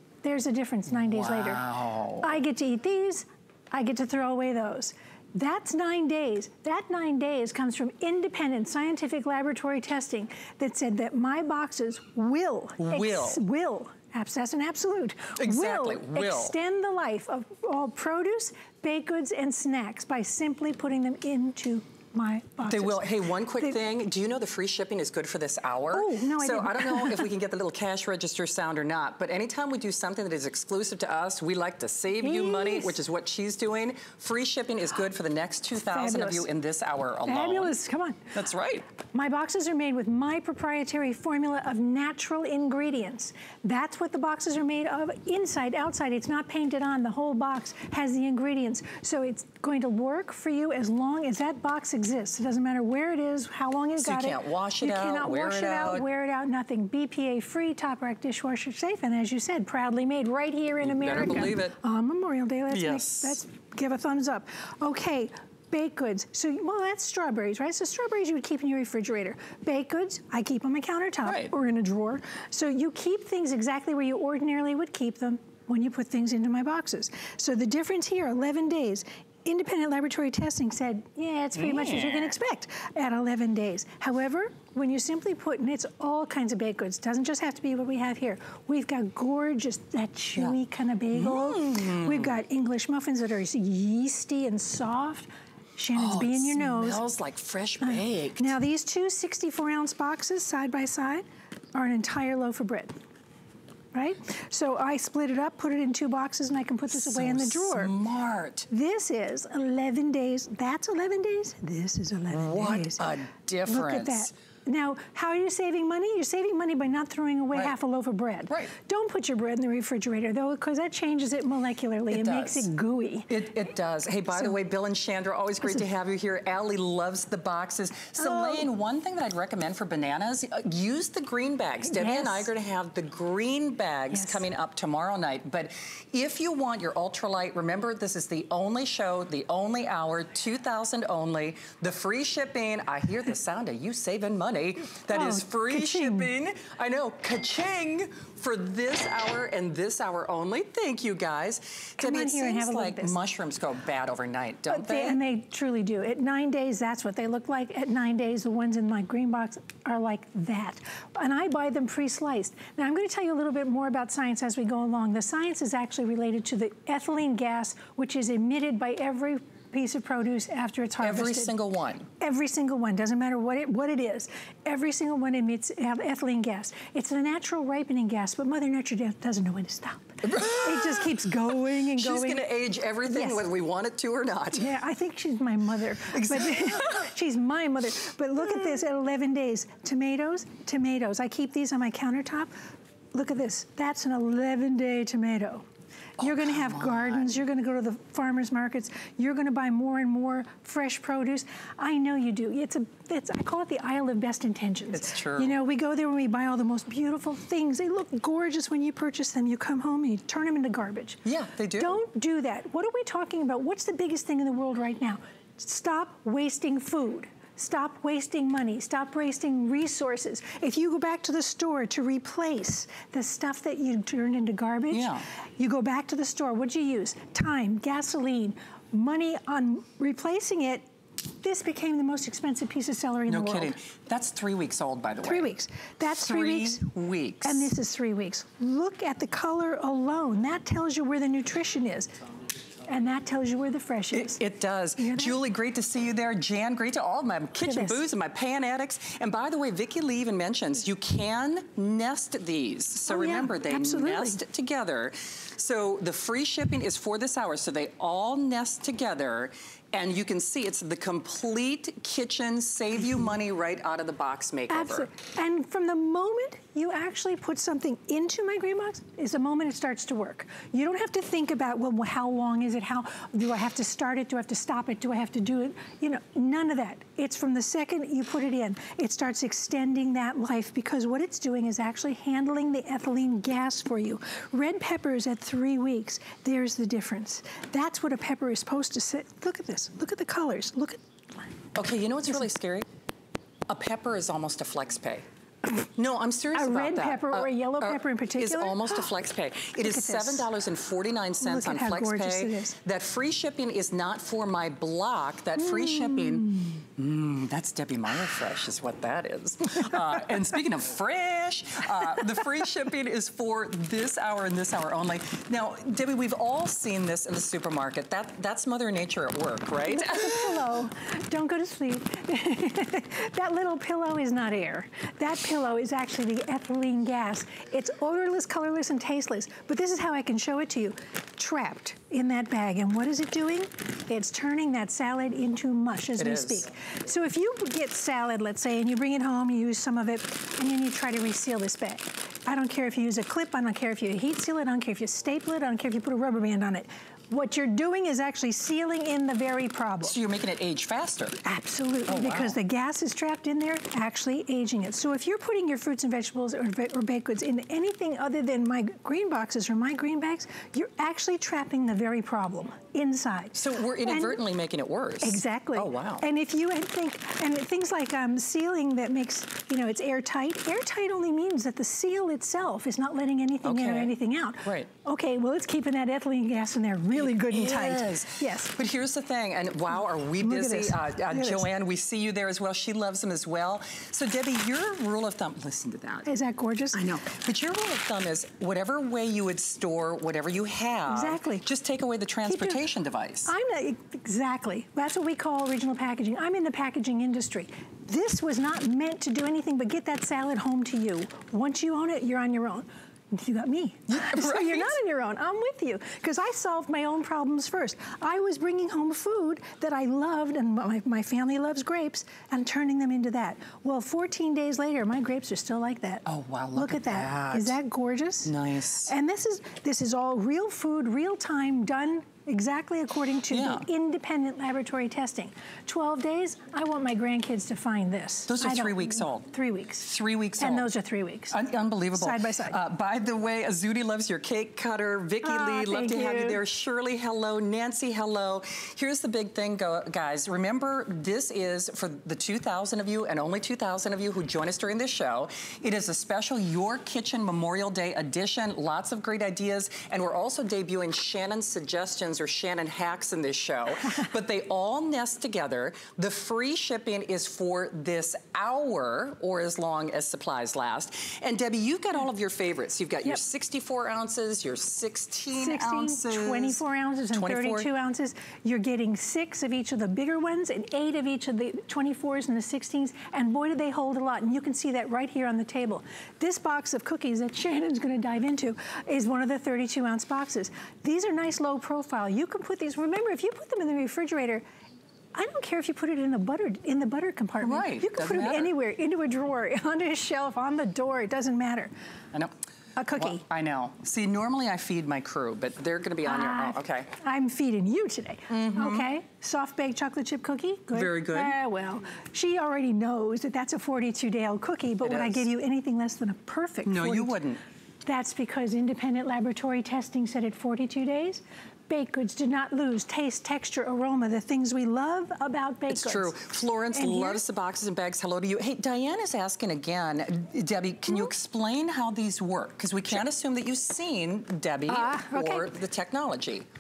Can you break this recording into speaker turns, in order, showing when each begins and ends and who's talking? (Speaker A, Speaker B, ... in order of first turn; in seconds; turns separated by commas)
Speaker A: 0.2-1.6, Speaker B: 0.9-2.4, Speaker A: 2.2-23.8, Speaker B: 12.8-13.4, Speaker B: 15.3-16.5, Speaker B: 22.6-37.8, Speaker A: 25.9-27.3, Speaker A: 32.2-33.0, Speaker A: 35.8-36.5, Speaker A: 37.2-38.3, Speaker B: 38.3-38.9, Speaker A: 39.1-97.0, Speaker B: 54.0-56.0, Speaker B: 60.8-61.8, Speaker B: 62.7-63.4, Speaker B: 71.2-71.5, Speaker B: 81.5-82.3, Speaker B: 91.1-92.3, Speaker B: 95.9-98.5, Speaker A: 97.8-102.9, Speaker A: 103.9-107.9, Speaker B: 106.9-108.7, Speaker A: 108.7-113.1, Speaker B: 112.3-114.3, Speaker A: 113.7-123.4, Speaker B: 122.1-122.7, Speaker B: 123.3-155.2, Speaker A: 128.2-128.7, Speaker A: 131.8-132.5, Speaker A: 134.1-134.4, Speaker A: 145.1-146.3, Speaker A: 152.0-153.1, Speaker A: 154.7-171.5, Speaker B: 171.0-172.1, Speaker A: 172.2-182.5, Speaker B: 180.2-184.7, Speaker A: 183.1-183.4, Speaker A: 184.5-192.5, Speaker B: 186.1-187.0, Speaker A: 193.1-195.6, Speaker A: 196.2-211.2, Speaker B: 196.2-197.3, Speaker B: 204.9-205.6, Speaker B: 211.2-212.0, Speaker A: 211.8-230.8, Speaker B: 224.9-225.2, Speaker A: 231.4-233.8, Speaker B: 233.3-235.5, Speaker A: 235.2-236.9, Speaker B: 236.1-237.7, Speaker A: 237.4-242.1, Speaker A: 242.8-244.4, Speaker B: 244.1-265.1, Speaker A: 245.0-245.4, Speaker A: 247.6-248.0, Speaker A: 253.1-254.4, Speaker A: 264.7-291.5, Speaker B: 291.7-292.8, Speaker B: 293.7-295.2, Speaker B: 295.8-320.7, Speaker A: 296.5-299.1, Speaker A: 299.8-300.5, Speaker A: 301.4-302.8, Speaker A: 305.6-306.7, Speaker A: 319.8-350.2, Speaker B: 336.1-336.7, Speaker B: 350.0-351.4, Speaker A: 351.4-364.4, Speaker B: 352.1-352.6, Speaker B: 363.5-366.2, Speaker A: 365.2-378.7, Speaker B: 373.6-374.9, Speaker B: 377.1-386.3, Speaker A: 380.4-381.7, Speaker A: 386.2-387.1, Speaker B: 386.9-393.5, Speaker A: 391.1-391.6, Speaker A: 392.4-392.8, Speaker A: 393.4-418.5, Speaker B: 404.1-404.9, Speaker B: 416.2-417.8, Speaker B: 418.4-419.1, Speaker A: 419.1-430.1, Speaker B: 423.5-423.9, Speaker B: 428.5-430.9, Speaker A: 430.6-431.6, Speaker B: 431.5-466.8, Speaker A: 432.1-432.8, Speaker A: 435.4-436.6, Speaker A: 465.5-484.6, Speaker B: 467.3-467.9, Speaker A: 485.3-491.9, Speaker B: 487.6-488.7, Speaker A: 492.9-493.4, Speaker B: 493.1-497.1, Speaker A: 496.2-507.4, Speaker B: 498.5-499.1, Speaker B: 500.9-501.5, Speaker B: 505.0-505.4, Speaker B: 506.9-507.6, Speaker A: 508.0-516.4, Speaker B: 515.9-526.6, Speaker A: 516.9-517.4, Speaker A: 524.9-525.7